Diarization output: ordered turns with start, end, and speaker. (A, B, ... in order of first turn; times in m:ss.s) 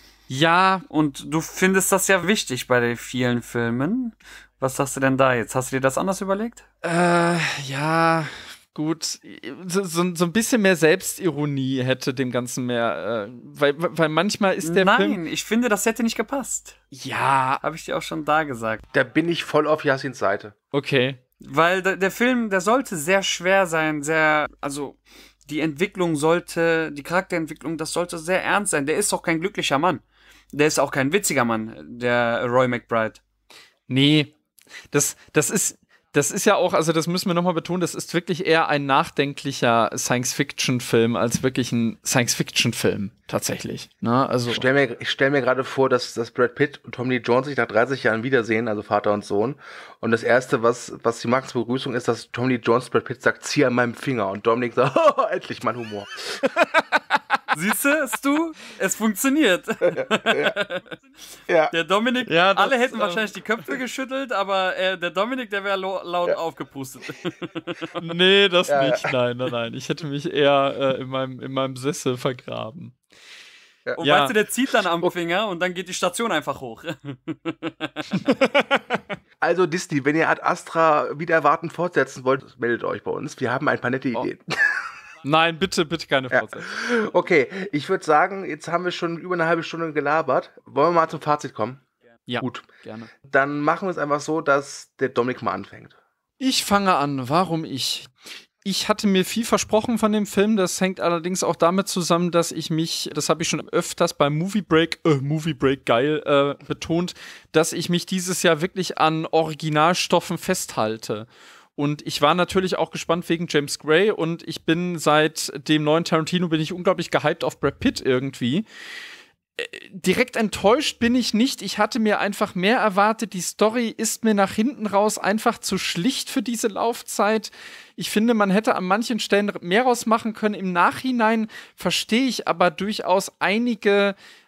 0:00.3-0:00.8 A
0:00.9-0:06.6 B
0:06.8-0:15.2 A
0:14.6-0:16.8 B
0:16.9-0:17.6 A
0:17.6-0:18.8 B
0:18.9-0:20.5 C
0:20.7-0:21.2 A
0:21.4-0:30.0 B
0:30.5-0:33.2 B
0:33.9-0:34.3 A
0:34.9-0:44.6 A
0:44.5-0:56.1 C
0:56.5-0:57.0 A
0:57.5-1:00.9 B
1:00.0-1:00.6 C
1:01.5-1:01.7 C
1:01.7-1:07.9 B
1:02.3-1:03.2 A
1:08.0-1:13.0 A
1:08.7-1:09.1 C
1:14.0-1:18.2 B
1:14.0-1:14.3 A
1:18.1-1:19.0 A
1:19.4-1:24.4 C
1:25.2-1:26.6 A
1:26.3-1:31.8 C
1:32.3-1:33.1 A
1:32.4-1:32.7 C
1:33.3-1:36.0 C
1:36.4-1:38.1 A
1:38.6-1:58.7 A
1:59.6-2:14.2 A